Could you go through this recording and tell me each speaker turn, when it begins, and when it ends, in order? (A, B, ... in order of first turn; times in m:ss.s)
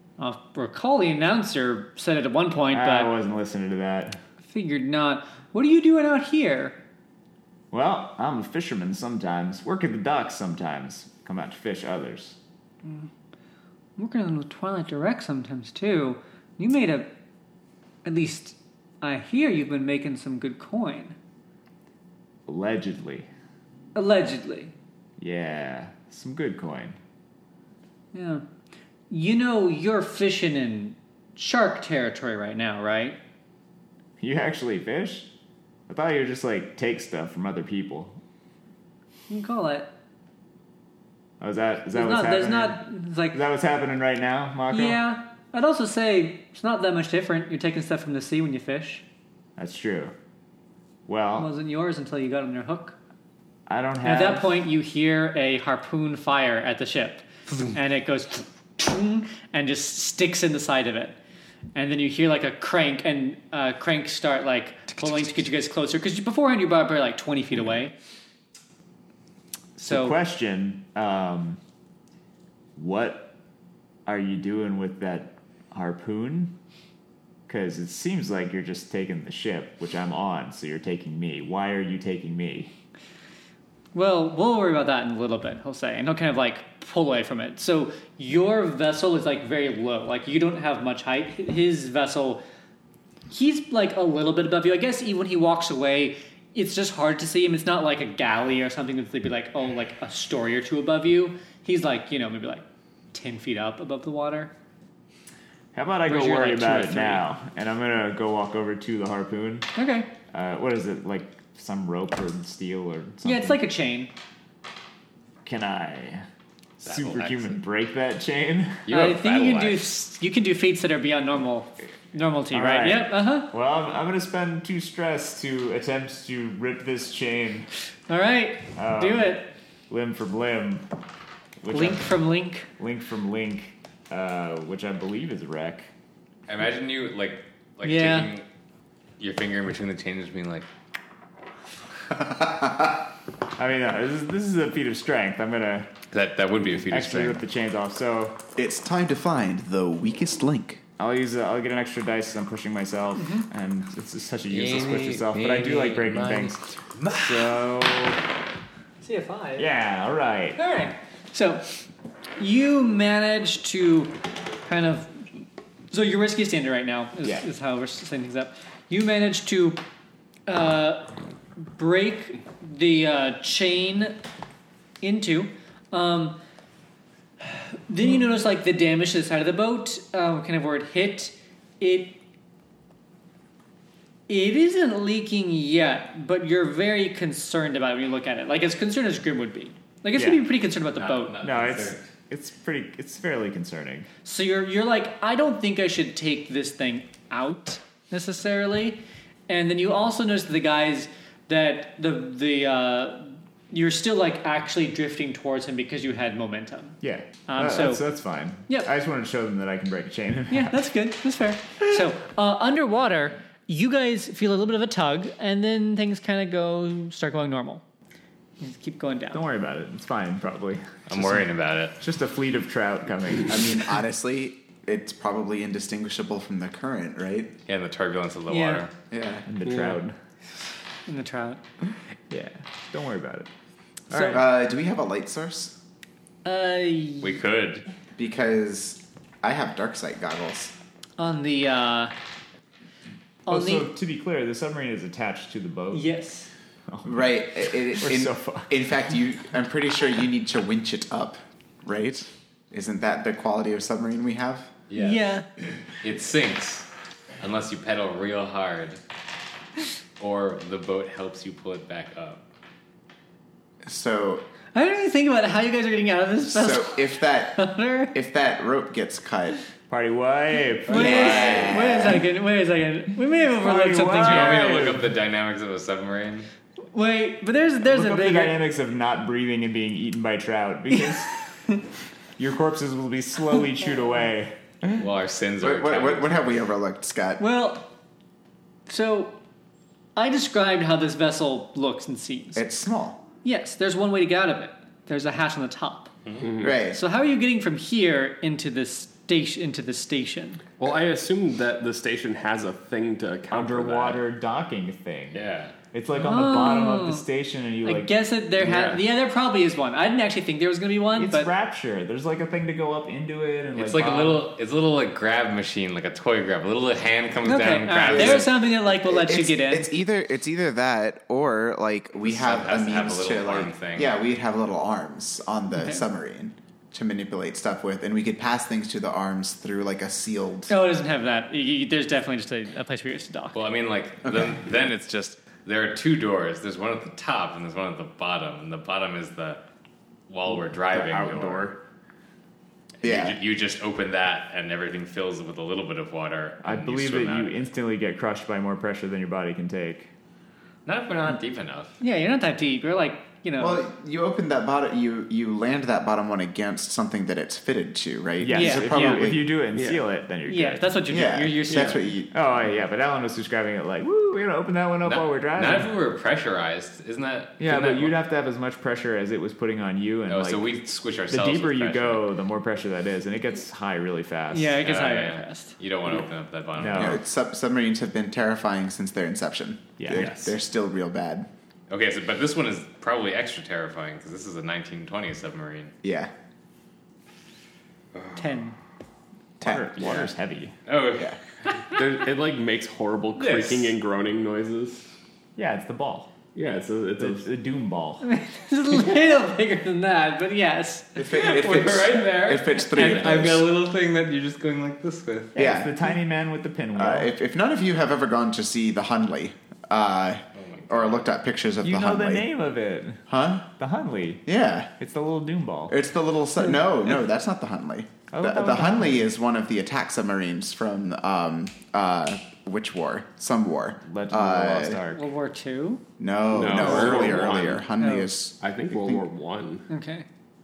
0:00.2-0:03.1 A
0:02.7-0:04.2 B
0:04.4-0:06.8 A
0:07.7-0:12.4 B
0:12.8-0:13.1 A
0:14.0-0:17.1 A
0:18.0-0:21.2 A
0:22.5-0:23.3 B
0:24.0-0:24.7 A
0:25.2-0:27.0 B
0:28.1-0:28.4 A
0:29.1-0:33.2 A
0:34.2-0:35.3 B
0:35.9-0:38.2 B
0:39.3-0:39.9 A
0:41.4-0:45.0 B
0:41.9-0:43.4 A
0:44.7-0:49.0 A
0:49.6-0:50.1 B
0:51.1-0:51.5 B
0:51.4-0:53.0 A
0:53.7-0:54.6 B
0:54.0-1:01.2 A
1:01.8-1:07.9 A
1:09.8-1:11.6 B
1:09.8-1:10.2 A
1:12.8-1:13.3 B
1:14.1-1:16.6 B
1:17.5-1:22.7 B
1:23.9-1:32.4 A
1:33.3-1:44.5 A
1:45.7-1:49.7 B
1:46.1-1:47.2 C
1:49.8-1:50.1 A
1:50.3-1:53.6 B
1:53.2-1:54.1 A
1:55.4-1:56.3 B
1:56.8-1:58.9 B
1:56.8-1:57.6 D
1:58.9-1:59.9 D
1:58.9-2:03.5 A
2:02.5-2:07.7 B
2:08.1-2:09.5 A
2:08.8-2:10.9 B
2:11.6-2:15.9 B
2:11.7-2:12.7 A
2:16.5-2:18.5 D
2:17.8-2:18.3 A
2:19.2-2:20.7 D
2:22.2-2:22.9 E
2:23.6-2:25.9 B
2:26.1-2:27.4 D
2:26.9-2:28.4 B
2:28.6-2:30.8 E
2:31.0-2:38.2 B
2:33.2-2:33.4 A
2:34.5-2:37.5 D
2:39.0-2:39.7 A
2:39.6-2:40.6 B
2:40.6-2:41.7 A
2:42.4-2:45.2 A
2:45.9-2:49.8 A
2:50.5-2:51.1 A
2:51.8-2:54.2 A
2:55.0-2:56.4 A
2:57.5-3:02.2 A
3:04.3-3:11.4 A
3:10.2-3:10.4 B
3:11.0-3:12.1 D
3:11.4-3:14.1 B
3:14.2-3:28.1 A
3:27.0-3:30.8 B
3:30.5-3:37.8 A
3:38.6-3:39.4 A
3:39.3-3:41.5 B
3:41.1-3:42.0 D
3:42.0-3:44.0 B
3:43.5-3:47.6 E
3:47.7-3:48.9 D
3:48.5-3:48.9 A
3:49.1-3:49.4 E
3:49.5-3:50.2 B
3:49.7-3:50.0 C
3:51.1-3:51.6 A
3:52.3-3:53.5 B
3:54.1-3:54.4 B
3:54.1-3:54.4 A
3:54.2-3:55.7 E
3:56.4-3:57.4 A
3:57.2-3:57.9 D
3:58.2-4:00.7 E
4:01.2-4:02.1 A
4:03.5-4:03.9 A
4:03.5-4:06.1 B
4:05.9-4:06.5 A
4:06.9-4:08.7 B
4:07.0-4:14.7 E
4:14.9-4:15.2 D
4:15.0-4:15.5 A
4:16.0-4:16.9 D
4:17.4-4:19.0 D
4:20.2-4:22.4 D
4:23.9-4:24.4 E
4:24.7-4:28.1 A
4:26.5-4:29.6 E
4:29.9-4:31.6 B
4:30.9-4:31.9 D
4:30.9-4:34.8 A
4:30.9-4:32.2 E
4:33.6-4:35.1 B
4:34.2-4:36.5 D
4:36.9-4:38.6 A
4:37.8-4:41.3 B
4:42.4-4:45.0 B
4:45.0-4:46.6 D
4:45.6-4:47.4 E
4:47.4-4:47.9 A
4:48.9-4:49.4 A
4:50.2-4:52.6 A
4:52.6-4:53.2 E
4:53.4-4:56.1 A
4:56.4-4:56.8 C
4:56.6-4:57.0 E
4:56.9-5:00.6 A
5:00.8-5:04.2 C
5:03.5-5:08.1 B
5:05.3-5:05.8 D
5:06.2-5:07.3 A
5:07.8-5:11.5 A
5:08.6-5:09.0 C
5:11.2-5:14.5 B
5:13.8-5:18.5 D
5:17.4-5:19.9 A
5:18.1-5:30.7 E
5:22.2-5:24.2 D
5:25.7-5:26.0 A
5:30.7-5:33.6 A
5:33.5-5:39.6 D
5:34.2-5:34.6 E
5:40.3-5:41.7 D
5:40.5-5:41.8 C
5:43.0-5:47.7 D
5:43.0-5:43.4 E
5:46.6-5:50.1 B
5:50.9-5:52.0 D
5:52.0-5:53.8 A
5:53.6-5:59.6 E
5:58.4-6:01.0 B
5:58.5-5:59.2 A
5:59.7-6:00.0 C
6:00.5-6:02.0 A
6:01.1-6:02.3 E
6:01.7-6:02.0 D
6:02.3-6:05.9 B
6:05.0-6:08.2 D
6:07.6-6:10.7 B
6:10.3-6:12.2 D
6:11.3-6:14.8 B
6:14.5-6:15.8 A
6:14.8-6:17.2 D
6:16.8-6:17.2 B
6:17.0-6:21.5 E
6:20.0-6:20.5 B
6:20.1-6:20.5 C
6:21.9-6:26.0 D
6:26.0-6:26.3 E
6:28.1-6:28.5 D
6:28.4-6:28.8 A
6:29.6-6:30.3 E
6:29.6-6:30.8 B
6:30.9-6:31.4 D
6:32.0-6:35.1 C
6:33.4-6:33.9 B
6:35.6-6:36.3 B
6:36.6-6:37.5 C
6:37.2-6:38.2 B
6:38.2-6:41.2 A
6:41.2-6:43.7 E
6:41.2-6:45.6 D
6:45.6-6:46.0 E
6:45.6-6:47.3 B
6:47.0-6:52.5 E
6:50.6-6:51.3 D
6:51.8-6:53.3 B
6:53.3-6:53.7 E
6:53.8-6:54.4 B
6:54.5-6:54.9 E
6:55.0-6:56.0 B
6:55.9-7:05.0 E
6:58.3-6:59.3 B
7:04.0-7:05.3 B
7:05.1-7:06.0 A
7:06.2-7:09.2 E
7:06.5-7:07.9 C
7:06.9-7:07.2 B
7:08.0-7:08.3 A
7:08.6-7:09.9 C
7:09.9-7:10.3 A